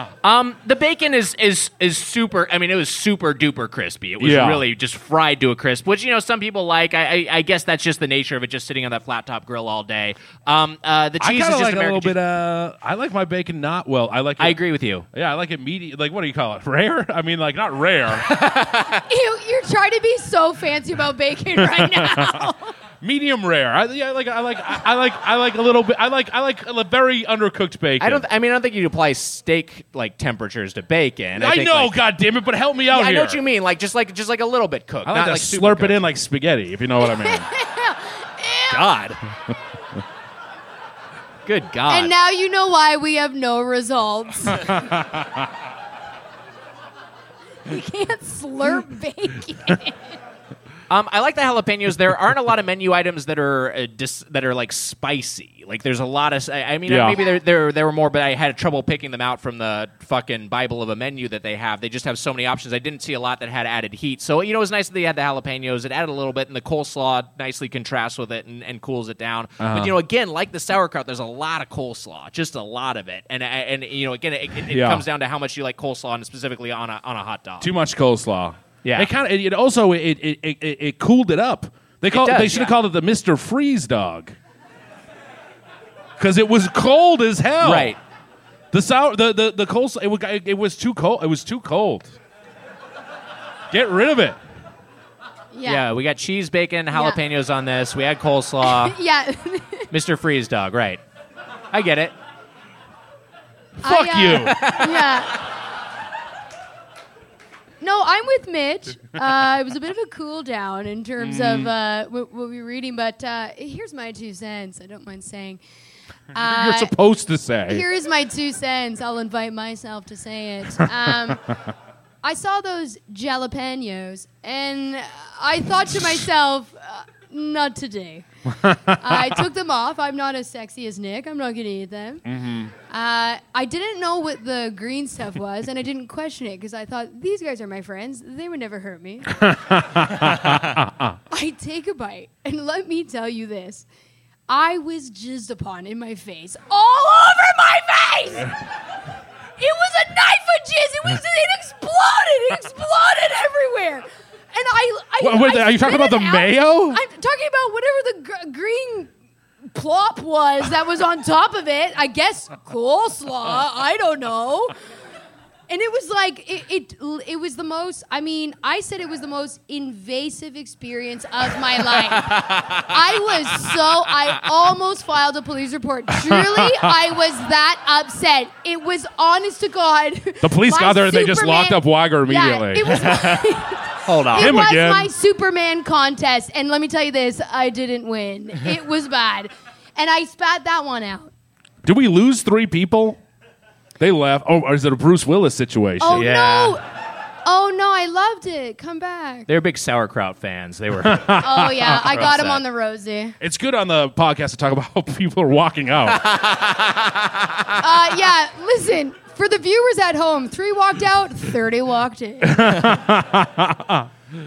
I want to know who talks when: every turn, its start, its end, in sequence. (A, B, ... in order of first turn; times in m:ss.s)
0:00.2-0:12.2 A
0:04.2-0:04.7 B
0:11.2-0:14.6 B
0:14.4-0:15.1 A
0:15.1-0:18.3 B
0:18.3-0:19.0 A
0:19.0-0:22.7 C
0:21.6-0:22.5 B
0:23.0-0:28.2 B
0:28.0-0:31.9 A
0:31.4-0:33.4 B
0:32.9-0:36.0 A
0:35.1-0:37.5 B
0:37.0-0:38.9 C
0:38.7-0:39.2 A
0:41.5-0:42.1 A
0:41.9-0:44.8 C
0:44.5-0:45.5 B
0:47.7-0:50.1 C
0:50.9-1:17.7 A
0:56.9-0:57.2 B
1:09.6-1:10.0 B
1:14.7-1:15.0 B
1:17.6-1:24.4 B
1:18.8-1:19.1 A
1:22.1-1:22.7 A
1:26.2-1:28.0 B
1:27.6-1:28.0 A
1:28.7-1:32.1 B
1:33.7-1:34.4 B
1:35.5-1:35.8 C
1:35.6-1:39.0 A
1:36.9-1:37.2 C
1:38.6-1:39.9 C
1:39.9-1:41.0 A
1:41.7-1:42.1 A
1:43.8-1:45.4 C
1:43.8-1:44.6 B
1:44.4-1:45.3 A
1:47.8-1:55.6 C
1:51.2-1:51.7 B
1:56.3-1:57.0 C
1:56.4-1:57.8 B
1:57.7-2:01.4 C
2:02.2-2:08.3 C
2:08.6-2:09.3 B
2:08.9-2:12.2 C
2:12.3-2:12.7 B
2:12.9-2:20.0 C
2:19.4-2:21.1 B
2:21.3-2:23.9 C
2:24.5-2:28.6 C
2:29.6-2:39.1 C
2:35.2-2:37.0 B
2:39.7-2:44.7 C
2:45.7-3:11.3 C
2:52.1-2:52.9 A
2:56.1-2:56.9 B
3:00.4-3:03.4 B
3:04.1-3:04.6 A
3:04.3-3:05.1 B
3:11.8-3:13.2 B
3:14.0-3:16.3 B
3:16.0-3:16.8 C
3:16.1-3:16.8 A
3:17.4-3:19.5 C
3:19.5-3:21.4 A
3:21.0-3:22.4 B
3:21.4-3:23.4 C
3:22.1-3:22.6 A
3:23.4-3:26.3 B
3:26.1-3:27.6 A
3:27.8-3:32.7 C
3:32.4-3:34.1 B